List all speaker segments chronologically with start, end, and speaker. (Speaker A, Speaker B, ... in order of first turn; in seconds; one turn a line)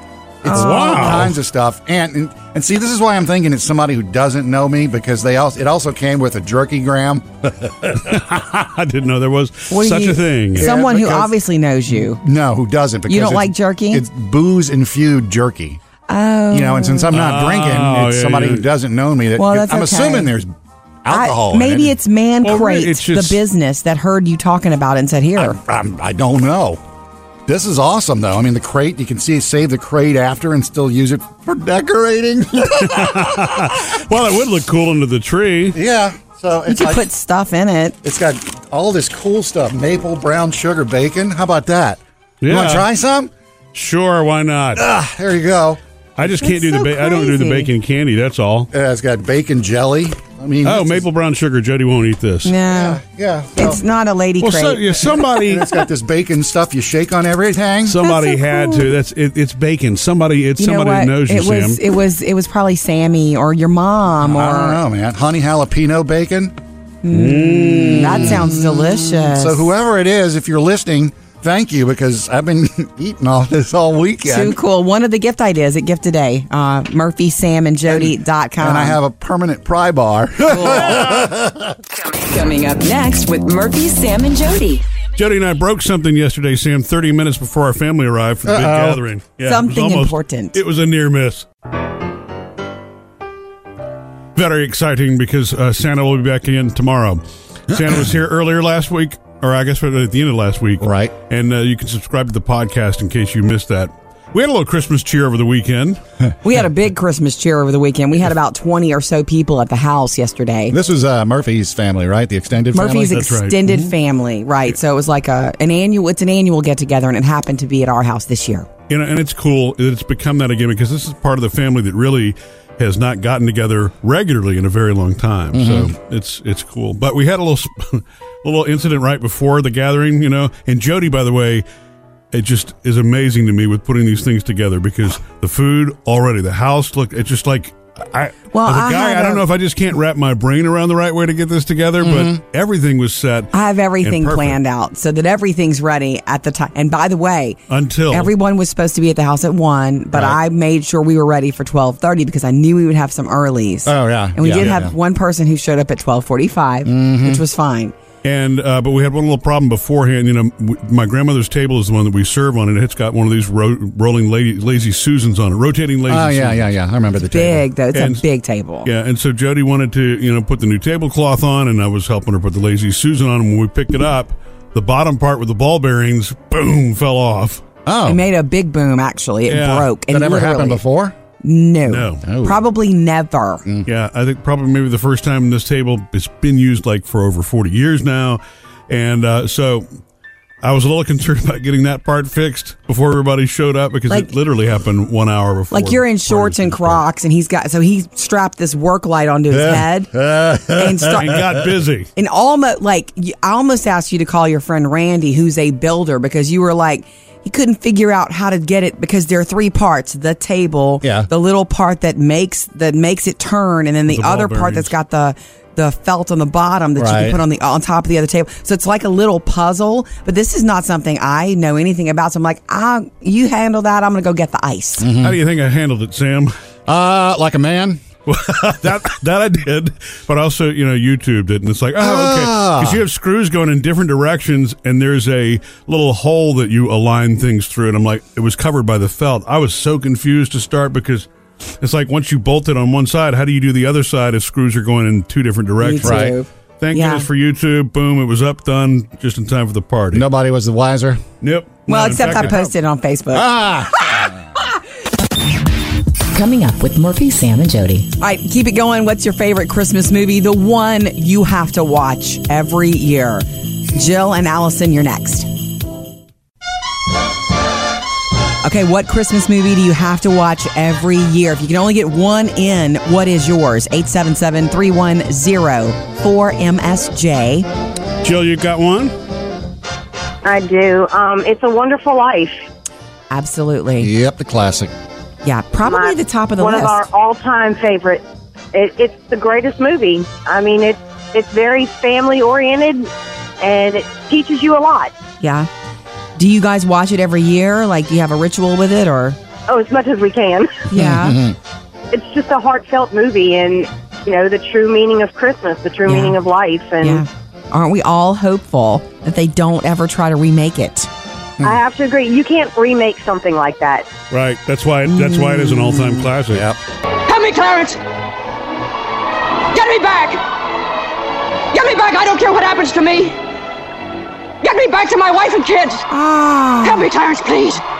Speaker A: 0.4-8.2
Speaker B: 0.5-1.4
Speaker C: 0.5-1.1
Speaker B: 8.0-10.7
Speaker C: 9.7-12.2
Speaker A: 10.6-11.4
Speaker A: 11.9-15.8
Speaker C: 13.1-14.0
Speaker C: 16.1-17.1
Speaker A: 16.5-20.5
Speaker B: 17.1-18.7
Speaker C: 19.4-20.3
Speaker A: 21.0-21.9
Speaker C: 21.1-25.6
Speaker B: 22.4-23.4
Speaker A: 25.4-26.8
Speaker A: 27.5-33.8
Speaker B: 32.8-35.8
Speaker A: 35.7-37.1
Speaker C: 36.7-38.0
Speaker A: 38.0-43.3
Speaker B: 42.4-42.9
Speaker B: 43.7-44.9
Speaker A: 44.8-45.8
Speaker B: 46.2-48.7
Speaker C: 46.2-47.7
Speaker A: 48.7-51.1
Speaker B: 50.6-52.5
Speaker C: 52.5-53.0
Speaker A: 52.7-53.8
Speaker C: 53.6-54.8
Speaker B: 54.4-55.8
Speaker A: 55.2-58.0
Speaker B: 57.9-61.8
Speaker C: 58.0-58.9
Speaker C: 60.6-64.8
Speaker A: 64.2-66.5
Speaker C: 67.0-69.7
Speaker B: 67.1-68.4
Speaker A: 67.9-74.6
Speaker C: 74.3-79.0
Speaker A: 77.9-81.8
Speaker C: 80.5-80.8
Speaker D: 82.0-84.8
Speaker B: 85.2-91.5
Speaker A: 88.5-89.0
Speaker C: 89.4-90.6
Speaker B: 94.4-106.0
Speaker A: 100.8-101.1
Speaker C: 106.4-110.8
Speaker A: 110.7-113.2
Speaker C: 112.7-118.7
Speaker B: 113.1-113.9
Speaker B: 118.9-131.6
Speaker A: 125.5-125.9
Speaker B: 132.3-144.6
Speaker C: 138.5-139.4
Speaker A: 142.0-142.4
Speaker C: 143.5-147.6
Speaker B: 147.7-148.3
Speaker C: 148.1-157.9
Speaker A: 150.1-150.4
Speaker A: 153.9-154.9
Speaker A: 156.8-157.4
Speaker B: 158.2-166.7
Speaker A: 166.1-167.7
Speaker C: 167.3-168.9
Speaker B: 167.9-168.2
Speaker B: 168.8-177.6
Speaker A: 177.9-178.2
Speaker C: 178.1-180.8
Speaker B: 179.5-179.9
Speaker A: 180.1-181.2
Speaker C: 181.4-183.6
Speaker B: 181.9-182.2
Speaker A: 182.2-182.6
Speaker B: 183.9-189.9
Speaker B: 190.6-197.0
Speaker C: 195.7-200.1
Speaker A: 199.5-201.6
Speaker C: 200.7-201.4
Speaker B: 201.2-202.1
Speaker C: 202.2-225.1
Speaker A: 211.0-211.3
Speaker B: 214.1-214.9
Speaker A: 217.0-217.4
Speaker A: 225.0-225.4
Speaker B: 225.2-226.5
Speaker A: 226.9-228.0
Speaker B: 228.3-241.3
Speaker A: 232.0-233.0
Speaker B: 241.8-250.3
Speaker C: 245.8-247.3
Speaker A: 246.0-246.3
Speaker A: 250.1-251.2
Speaker B: 251.4-252.6
Speaker C: 251.9-254.3
Speaker A: 252.4-252.7
Speaker A: 253.3-254.3
Speaker D: 256.3-258.1
Speaker C: 258.2-265.5
Speaker C: 268.6-277.7
Speaker B: 278.2-279.1
Speaker E: 280.4-282.6
Speaker C: 283.3-284.1
Speaker A: 284.0-284.9
Speaker C: 285.4-287.1
Speaker E: 285.8-293.1
Speaker E: 293.6-295.1
Speaker C: 295.4-295.7
Speaker C: 296.4-299.4
Speaker E: 299.7-300.8
Speaker C: 300.9-301.4
Speaker A: 300.9-301.6
Speaker E: 302.1-307.2
Speaker C: 306.1-306.4
Speaker C: 307.0-311.1
Speaker E: 311.6-314.1
Speaker B: 314.3-316.7
Speaker C: 315.1-316.3
Speaker A: 316.5-316.8
Speaker F: 317.3-318.0
Speaker F: 319.7-320.4
Speaker F: 321.7-323.4
Speaker F: 324.6-326.0
Speaker C: 326.1-327.1
Speaker F: 326.8-327.8